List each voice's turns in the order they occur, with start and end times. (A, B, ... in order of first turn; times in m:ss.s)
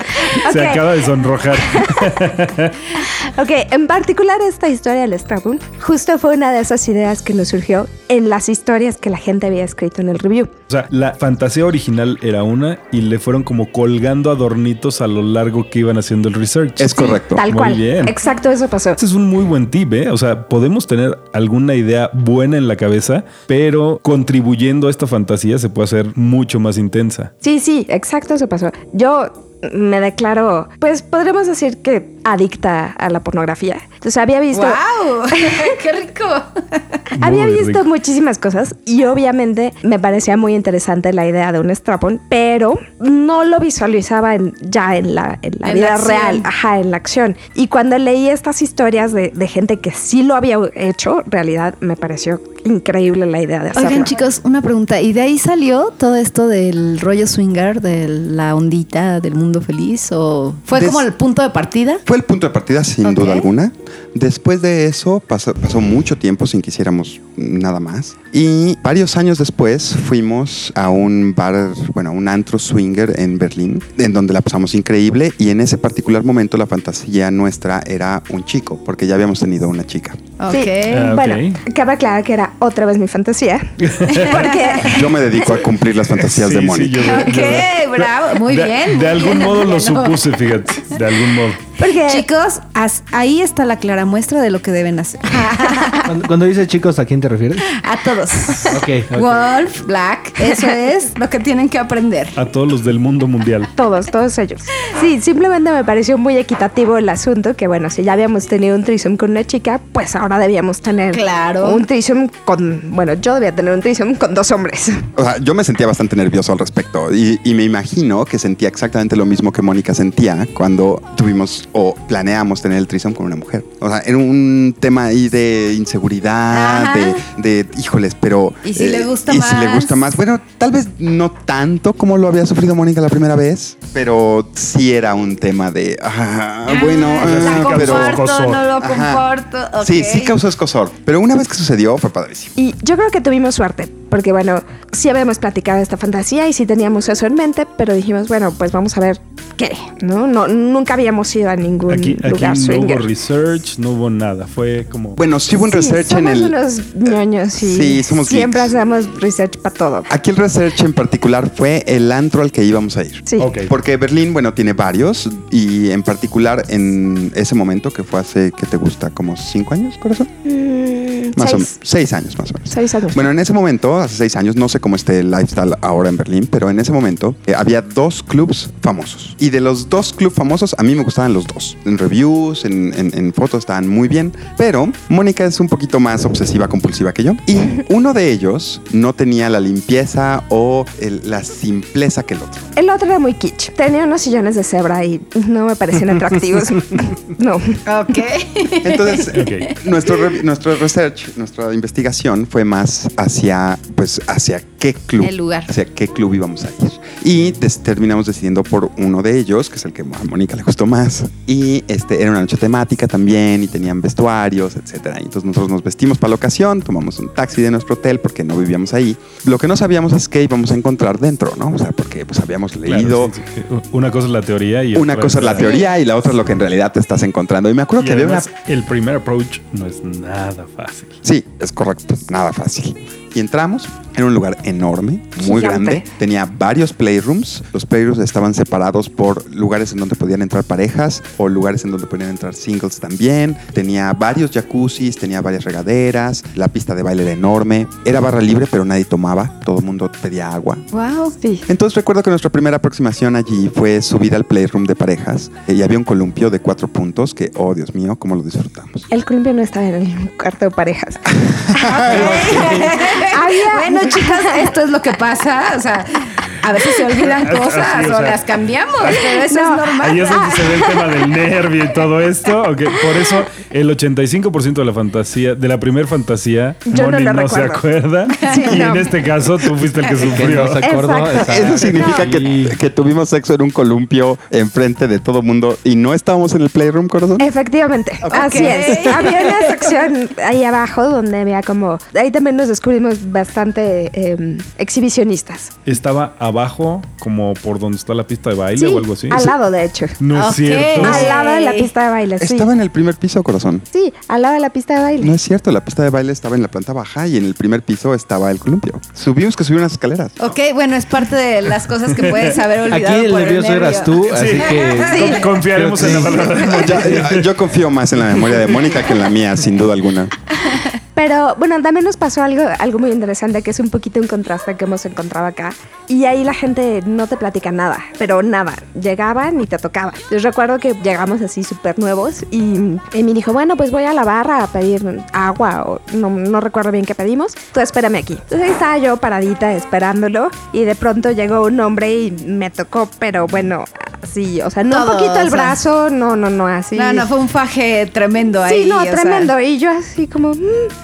0:00.2-0:00.9 A
0:00.2-0:02.8 B
0:01.7-0:02.1 A
0:03.0-0:10.5 A
0:10.7-0:18.2 B
0:16.8-0:17.4 C
0:16.9-0:19.0 A
0:19.0-0:27.3 B
0:27.4-0:35.7 A
0:34.5-0:37.1 D
0:37.1-0:37.8 B
0:37.2-0:54.1 A
0:45.6-0:46.5 D
0:53.8-1:02.0 D
1:00.7-1:01.1 C
1:02.0-1:20.2 C
1:03.0-1:03.5 D
1:20.4-1:21.1 D
1:20.5-1:25.6 A
1:20.9-1:21.6 B
1:23.8-1:24.6 B
1:24.8-1:27.2 C
1:26.1-1:31.6 B
1:27.0-1:30.3 D
1:31.8-1:32.3 A
1:31.9-1:36.2 D
1:36.0-1:37.7 E
1:37.7-1:42.4 D
1:38.7-1:39.5 E
1:40.4-1:40.7 A
1:42.4-1:43.7 B
1:43.8-1:55.1 A
1:51.1-1:51.8 D
1:55.2-2:18.2 C
2:06.5-2:07.2 D
2:08.6-2:10.0 D
2:16.7-2:20.4 D
2:17.2-2:18.8 B
2:18.8-2:19.2 C
2:19.8-2:22.5 C
2:22.6-2:33.1 A
2:31.9-2:35.2 B
2:35.2-2:36.6 C
2:35.6-2:40.1 A
2:37.1-2:38.8 C
2:40.1-2:50.3 C
2:43.3-2:43.5 A
2:43.4-2:43.7 B
2:50.4-2:51.8 A
2:51.4-3:12.6 C
2:52.7-2:53.3 A
3:12.8-3:17.8 A
3:17.9-3:19.7 D
3:18.8-3:43.3 C
3:19.3-3:19.7 B
3:25.2-3:25.7 D
3:42.9-3:45.8 B
3:44.9-3:48.5 C
3:48.0-3:51.2 B
3:51.2-4:10.8 C
3:55.4-3:56.1 A
4:10.9-4:11.4 D
4:11.4-4:11.6 A
4:11.7-4:19.1 C
4:19.1-4:24.7 A
4:21.5-4:22.9 C
4:21.9-4:30.9 D
4:22.1-4:22.4 B
4:27.2-4:28.4 B
4:29.0-4:29.2 B
4:29.1-4:31.0 A
4:30.0-4:40.9 B
4:36.9-4:39.2 A
4:40.1-4:42.8 E
4:40.8-4:42.2 A
4:41.5-4:47.5 C
4:47.4-4:55.7 A
4:48.2-4:49.3 C
4:48.3-4:49.6 D
4:55.9-4:59.6 B
4:58.8-5:00.2 A
5:00.2-5:01.3 B
5:00.3-5:01.9 D
5:01.0-5:02.7 A
5:02.4-5:03.9 C
5:03.9-5:05.4 A
5:05.2-5:10.4 C
5:10.4-5:15.2 D
5:12.2-5:12.6 B
5:12.9-5:17.2 E
5:14.3-5:17.5 B
5:15.1-5:15.5 A
5:16.0-5:20.4 C
5:21.1-5:47.3 A
5:44.9-5:45.8 D
5:47.0-5:49.5 D
5:48.6-5:50.9 A